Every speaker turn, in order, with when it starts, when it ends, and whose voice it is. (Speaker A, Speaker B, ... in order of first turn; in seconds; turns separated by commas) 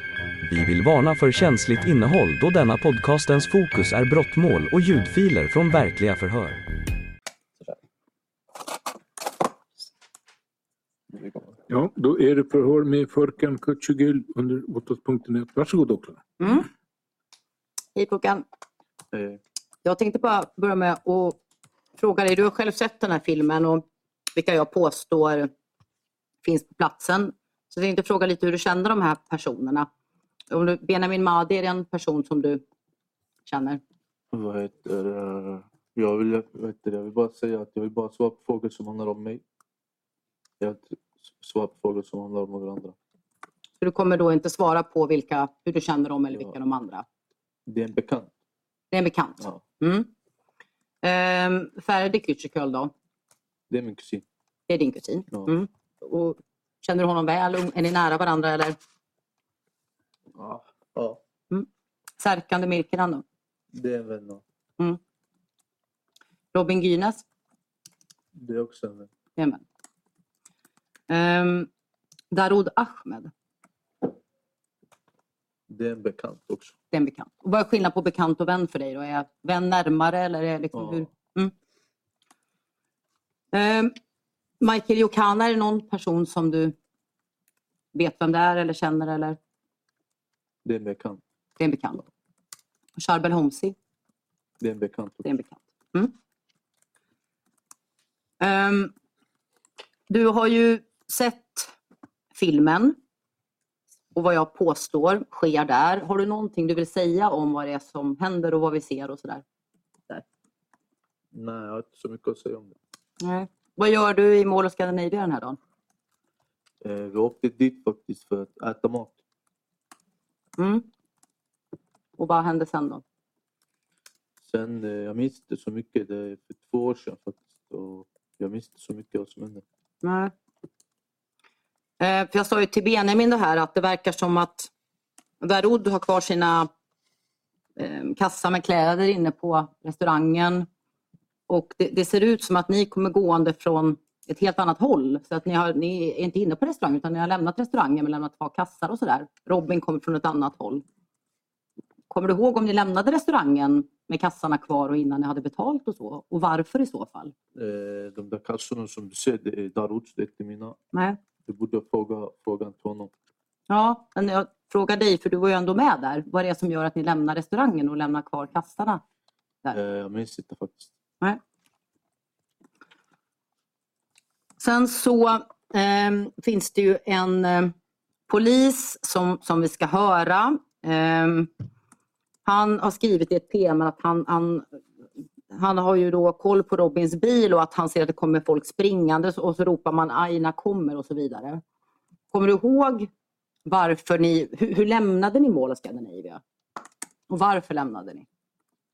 Speaker A: 0.4-6.6, Speaker B: 11.7-16.2, Speaker C: 16.4-16.7, Speaker C: 17.9-18.4, Speaker D: 19.1-19.4, Speaker C: 19.8-21.4, Speaker C: 21.9-25.5, Speaker C: 26.4-29.9, Speaker C: 30.5-32.6, Speaker C: 33.4-33.8, Speaker D: 34.3-39.4, Speaker D: 40.6-42.9, Speaker C: 43.8-47.0, Speaker D: 46.3-46.6, Speaker D: 47.7-48.3, Speaker C: 48.9-50.1, Speaker C: 51.0-52.9, Speaker D: 53.7-54.2, Speaker C: 54.7-58.8, Speaker D: 60.3-61.2, Speaker C: 62.2-63.2, Speaker D: 63.7-64.4, Speaker C: 66.5-67.2, Speaker D: 68.3-69.1, Speaker C: 69.4-69.6, Speaker C: 71.1-71.7, Speaker C: 72.3-73.3, Speaker D: 75.7-76.7, Speaker C: 76.9-81.5, Speaker D: 80.7-81.1, Speaker C: 83.5-83.9, Speaker C: 84.6-86.7, Speaker C: 87.9-89.4, Speaker D: 90.6-91.2, Speaker C: 91.6-92.0, Speaker C: 93.0-93.8, Speaker D: 94.6-95.3, Speaker C: 95.2-96.1, Speaker C: 98.4-98.9, Speaker C: 100.1-101.7, Speaker C: 102.3-103.0, Speaker C: 104.1-109.4, Speaker D: 111.3-112.8, Speaker C: 113.2-115.6, Speaker D: 116.8-119.2, Speaker C: 120.6-120.9, Speaker C: 122.2-123.0, Speaker D: 124.4-129.6, Speaker C: 130.0-130.3, Speaker C: 132.0-134.7, Speaker C: 135.4-136.7, Speaker C: 137.8-140.7, Speaker C: 141.5-150.8, Speaker C: 152.1-157.3, Speaker D: 157.5-160.8, Speaker C: 160.9-161.2, Speaker D: 161.4-163.1, Speaker C: 163.7-169.0, Speaker D: 169.7-170.9, Speaker C: 174.6-177.7, Speaker C: 178.3-181.5, Speaker C: 182.4-184.8, Speaker C: 185.5-191.6, Speaker C: 192.3-193.1, Speaker C: 193.6-196.4, Speaker C: 197.3-198.2